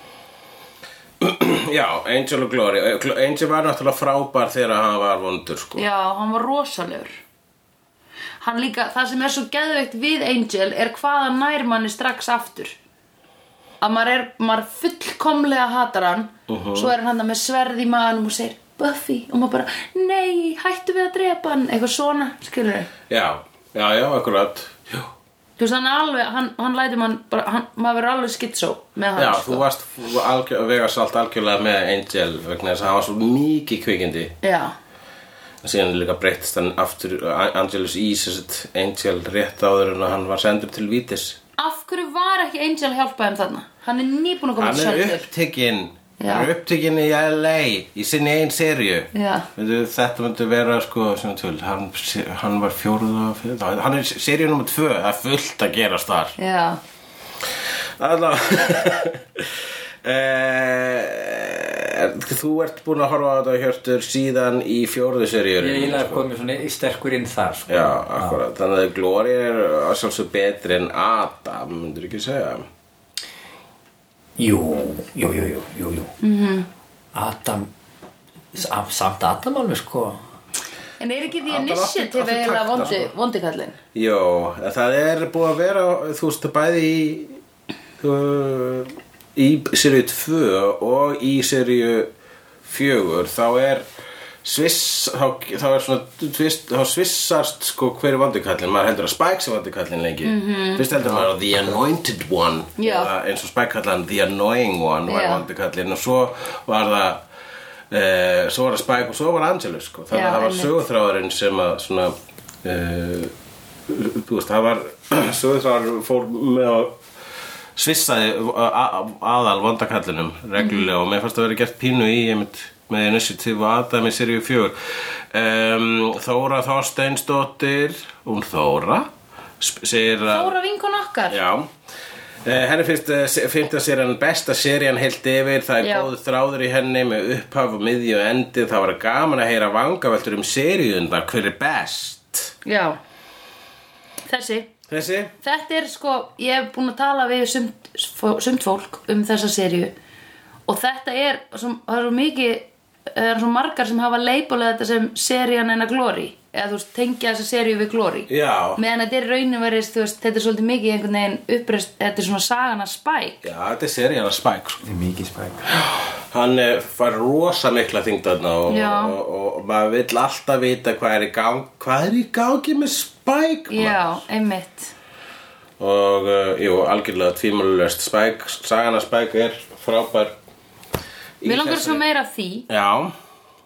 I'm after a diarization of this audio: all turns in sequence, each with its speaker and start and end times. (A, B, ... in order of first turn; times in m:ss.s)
0:01.2-0:05.8 A
0:05.8-0:07.2 B
0:08.4-0:12.8 B
0:13.8-0:22.9 B
0:16.5-0:17.0 A
0:23.1-0:25.1 A
0:25.6-0:29.6 B
0:29.2-0:34.3 A
0:34.4-0:34.7 B
0:35.6-0:41.4 A
0:41.6-0:45.3 B
0:44.6-0:56.4 A
0:46.2-0:46.5 B
0:49.1-0:49.5 B
0:56.4-0:56.8 B
0:58.0-1:06.2 A
1:05.6-1:08.4 C
1:07.7-1:12.7 A
1:14.4-1:16.1 C
1:16.2-1:16.7 B
1:17.1-1:17.7 C
1:18.5-1:20.2 C
1:21.0-1:23.8 B
1:21.4-1:23.1 A
1:24.0-1:27.4 A
1:28.0-1:32.1 A
1:32.6-1:33.9 A
1:34.4-1:47.2 A
1:40.2-1:40.9 B
1:42.8-1:43.1 B
1:45.1-1:45.4 B
1:47.9-1:53.3 A
1:50.1-1:50.8 B
1:53.9-1:57.0 A
1:57.8-2:09.1 A
2:00.6-2:00.9 B
2:09.6-2:10.5 A
2:10.3-2:11.4 B
2:11.3-2:11.7 A
2:12.4-2:22.6 A
2:15.8-2:16.1 B
2:22.6-2:23.0 B
2:24.3-2:24.7 B
2:24.9-2:25.3 A
2:25.4-2:29.9 B
2:30.7-2:43.4 B
2:38.3-2:38.8 A
2:43.4-2:44.8 A
2:44.8-2:45.8 C
2:45.7-2:54.2 A
2:48.7-2:49.2 B
2:53.7-2:54.9 B
2:55.8-3:00.4 A
3:01.4-3:02.0 A
3:01.4-3:02.7 B
3:02.7-3:03.2 A